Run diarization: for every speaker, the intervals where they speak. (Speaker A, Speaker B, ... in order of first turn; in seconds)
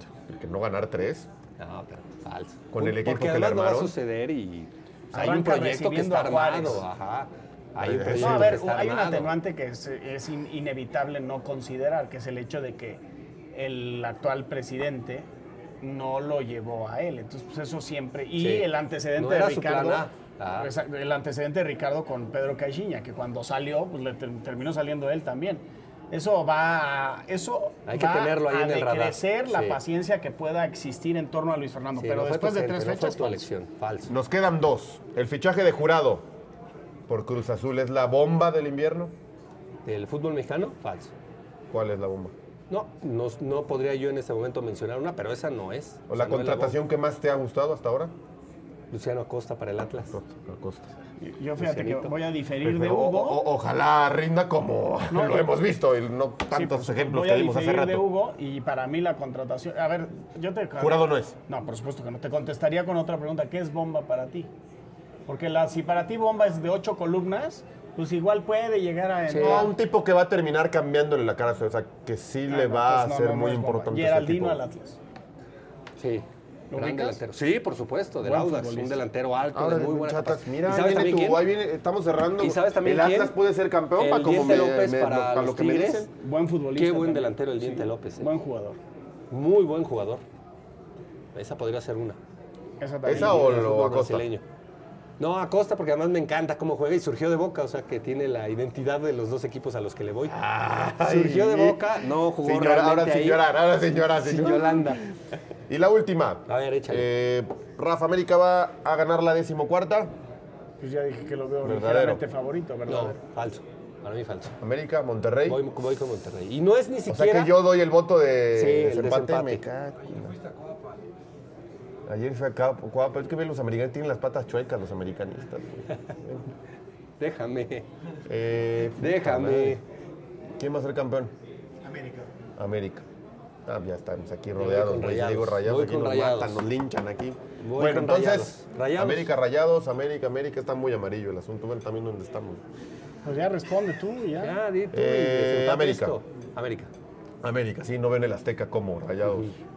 Speaker A: 0.2-1.3, 2.7-4.0, 7.8-8.6, 34.1-36.2, 37.1-39.1, 41.7-42.3, 46.1-48.1, 50.1-50.9, 52.6-58.1, 60.8-61.4, 69.4-74.6, 79.5-86.1, 93.0-94.3, 100.3-105.0, 105.7-110.1, 111.6-112.2, 114.6-115.6, 117.1-120.4, 122.1-126.5, 128.3-129.8, 130.6-131.3, 132.6-133.1, 133.7-142.6, 144.9-146.2, 147.4-149.6
Speaker B: 1.6-9.3, 18.4-20.7, 27.9-29.8, 32.0-34.1, 39.9-41.1, 42.7-46.8, 48.9-50.1, 51.6-52.2, 69.3-69.7, 76.0-81.5, 82.4-83.4, 84.0-86.1, 86.8-88.3, 89.3-90.2, 91.3-92.2, 93.1-94.4, 95.2-100.4, 101.0-103.5, 104.2-105.1, 106.5-107.1, 112.9-114.5, 115.5-117.6, 118.5-119.7, 127.2-127.9, 129.0-129.8, 134.6-136.6, 137.6-139.3, 144.4-146.9, 149.3-149.5
Speaker C: 5.1-6.8, 8.1-13.0, 13.5-15.3, 15.8-33.5, 51.2-53.5, 55.1-55.5, 56.5-64.5, 65.3-69.7, 72.5-75.0, 76.7-77.2, 78.2-79.0, 86.2-88.8, 92.8-93.8, 110.8-113.2, 131.8-132.3, 143.2-144.5